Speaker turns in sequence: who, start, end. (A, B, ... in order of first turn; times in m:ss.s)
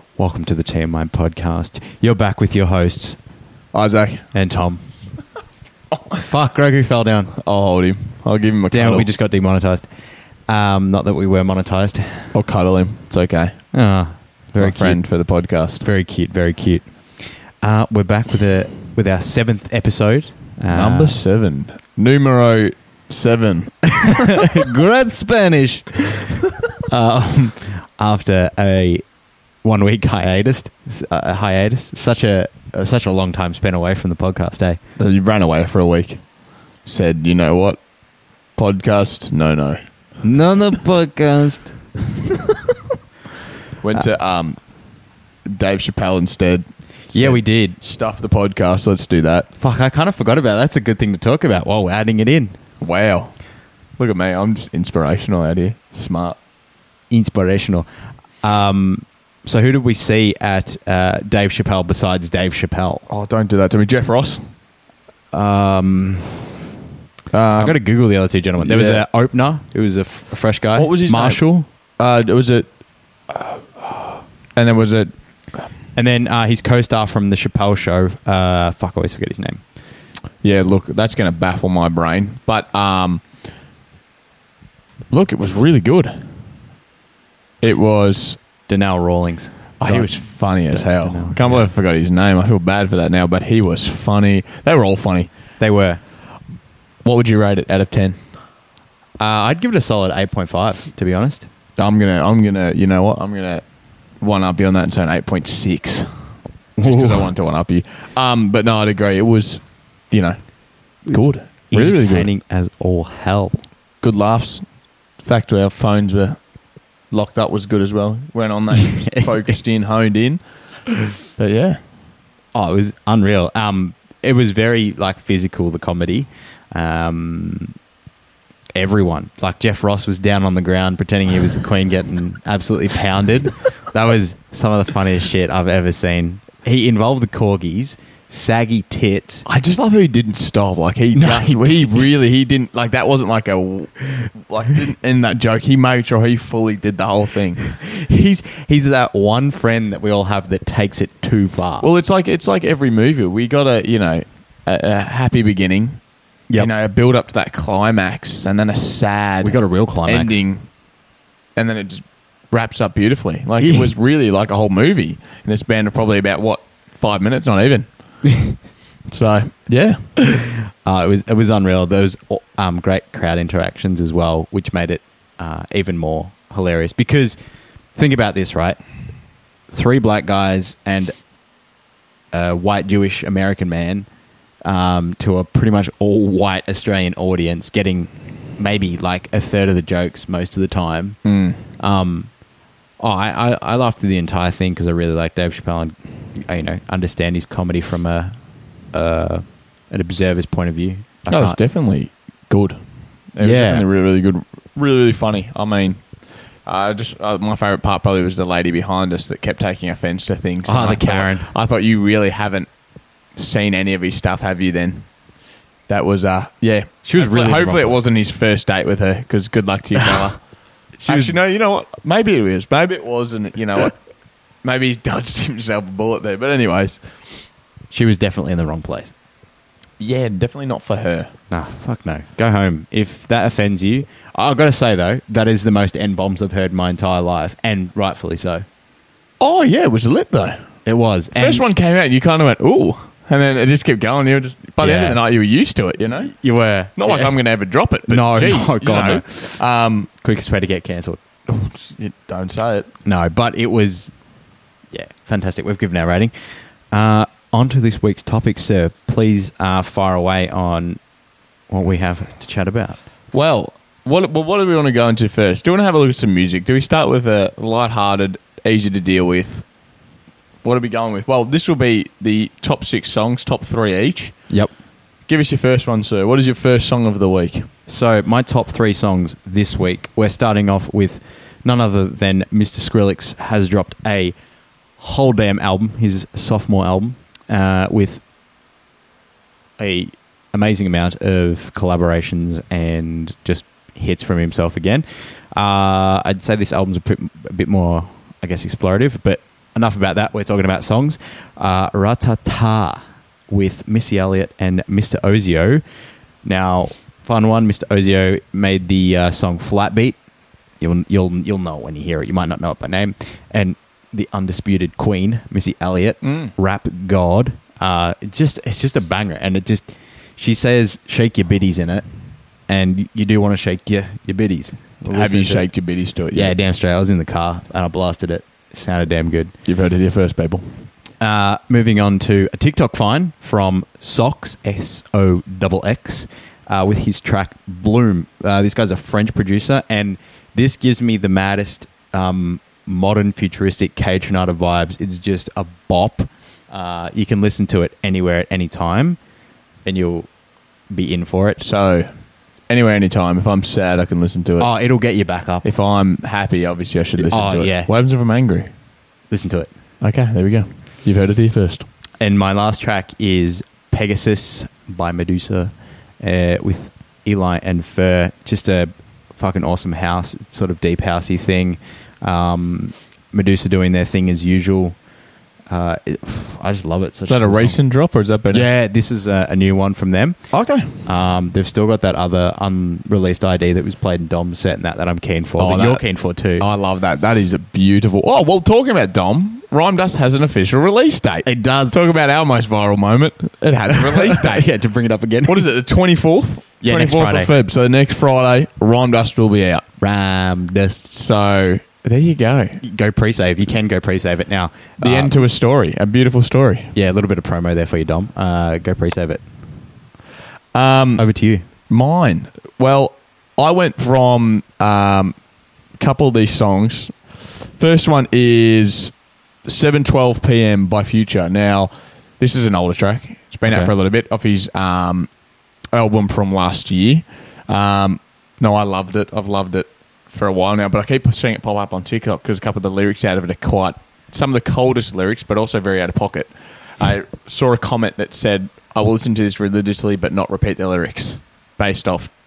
0:00.2-0:03.2 A
0:03.7-0:04.3 B
0:04.3-0:04.8 A
0:06.1-0:07.4 A
0:07.4-0:09.1 B
0:08.7-0:09.9 A
0:10.5-0:12.3 A
0:12.3-0:13.6 B
0:13.7-0:15.0 A
0:14.6-0:15.8 B
0:15.8-0:16.9 A
0:17.6-0:21.2 A
0:20.7-0:24.5 B
0:24.0-0:29.0 A
0:29.6-0:34.8 A
0:35.0-0:36.2 B
0:36.9-0:37.8 B
0:38.6-0:39.8 B
0:40.2-0:41.8 A
0:43.8-0:44.6 B
0:45.5-0:49.5 B
0:47.1-0:47.8 A
0:49.6-0:52.6 A
0:52.8-0:53.3 B
0:54.0-0:56.4 B
0:57.1-0:57.9 A
0:58.4-1:03.0 A
1:03.1-1:04.4 B
1:05.3-1:06.5 A
1:07.3-1:07.8 B
1:07.5-1:11.7 A
1:08.6-1:09.0 B
1:10.8-1:11.4 B
1:12.0-1:12.7 B
1:13.3-1:14.0 B
1:14.6-1:15.1 B
1:16.0-1:19.6 A
1:20.4-1:23.2 B
1:25.1-1:26.2 B
1:27.6-1:28.4 B
1:28.7-1:31.7 A
1:29.8-1:35.3 B
1:35.6-1:36.0 A
1:37.0-1:38.2 B
1:39.2-1:41.5 A
1:41.8-1:43.6 B
1:44.2-1:46.2 B
1:46.8-1:47.3 A
1:46.8-1:50.4 B
1:51.1-1:53.6 A
1:51.1-1:52.3 B
1:54.0-1:54.6 B
1:55.2-1:56.4 B
1:57.1-2:00.4 B
1:58.9-1:59.3 A
2:01.4-2:01.8 B
2:02.6-2:07.8 A
2:08.8-2:19.4 A
2:19.5-2:27.6 B
2:21.2-2:22.0 A
2:27.7-2:31.9 A
2:31.8-2:36.0 B
2:36.6-2:40.7 B
2:39.4-2:40.4 A
2:41.6-2:47.9 B
2:43.6-2:43.9 A
2:49.1-2:50.0 B
2:50.2-2:57.4 A
2:58.0-2:58.8 A
2:59.7-3:01.1 A
3:02.3-3:04.1 A
3:04.6-3:11.2 A
3:11.2-3:11.6 B
3:11.8-3:12.3 A
3:13.0-3:18.3 A
3:18.9-3:21.6 A
3:21.3-3:22.8 B
3:23.4-3:26.0 B
3:23.4-3:23.8 A
3:26.7-3:32.7 B
3:30.6-3:31.5 A
3:33.4-3:35.1 B
3:35.9-3:40.4 B
3:37.0-3:38.0 A
3:41.0-3:44.0 B
3:41.1-3:41.4 A
3:44.6-3:47.0 B
3:47.9-3:49.1 A
3:50.0-3:51.3 B
3:51.5-3:58.6 A
3:59.4-4:00.6 B
4:00.9-4:01.6 A
4:01.4-4:06.3 B
4:04.8-4:05.2 A
4:06.4-4:07.4 A
4:07.0-4:10.1 B
4:08.1-4:09.6 A
4:10.2-4:11.2 A
4:11.5-4:12.9 B
4:13.0-4:14.1 A
4:14.9-4:16.3 A
4:16.9-4:21.0 A
4:21.7-4:23.0 A
4:23.3-4:29.6 B
4:30.6-4:34.4 B
4:35.3-4:37.7 B
4:37.9-4:44.4 A
4:45.0-4:48.2 A
4:49.8-5:05.8 A
5:06.4-5:10.2 A
5:10.8-5:22.0 A
5:16.2-5:16.5 B
5:22.7-5:25.7 A
5:25.1-5:26.5 B
5:26.3-5:29.5 A
5:29.7-5:30.6 B
5:31.2-5:49.2 A
5:49.8-5:50.3 A
5:50.9-5:51.6 A
5:51.6-5:52.1 B
5:52.7-5:54.7 B
5:54.6-5:55.7 A
5:55.6-5:58.7 B
5:57.2-5:57.9 A
5:59.3-5:59.7 A
6:00.0-6:01.9 B
6:02.2-6:15.0 A
6:15.7-6:17.8 A
6:17.3-6:18.7 B
6:18.5-6:20.4 A
6:20.5-6:21.0 B
6:21.1-6:26.7 A
6:25.6-6:26.0 B
6:26.6-6:34.6 B
6:31.4-6:32.0 A
6:33.9-6:35.7 A
6:35.5-6:39.8 B
6:36.8-6:37.5 A
6:40.0-6:41.1 A
6:41.1-6:42.8 B
6:42.8-6:45.4 A
6:45.0-6:46.9 B
6:47.0-6:49.5 A
6:50.7-6:51.2 B
6:51.2-6:51.7 A
6:51.9-6:55.4 B
6:56.0-6:59.2 B
6:59.7-7:05.3 B
7:05.9-7:22.3 B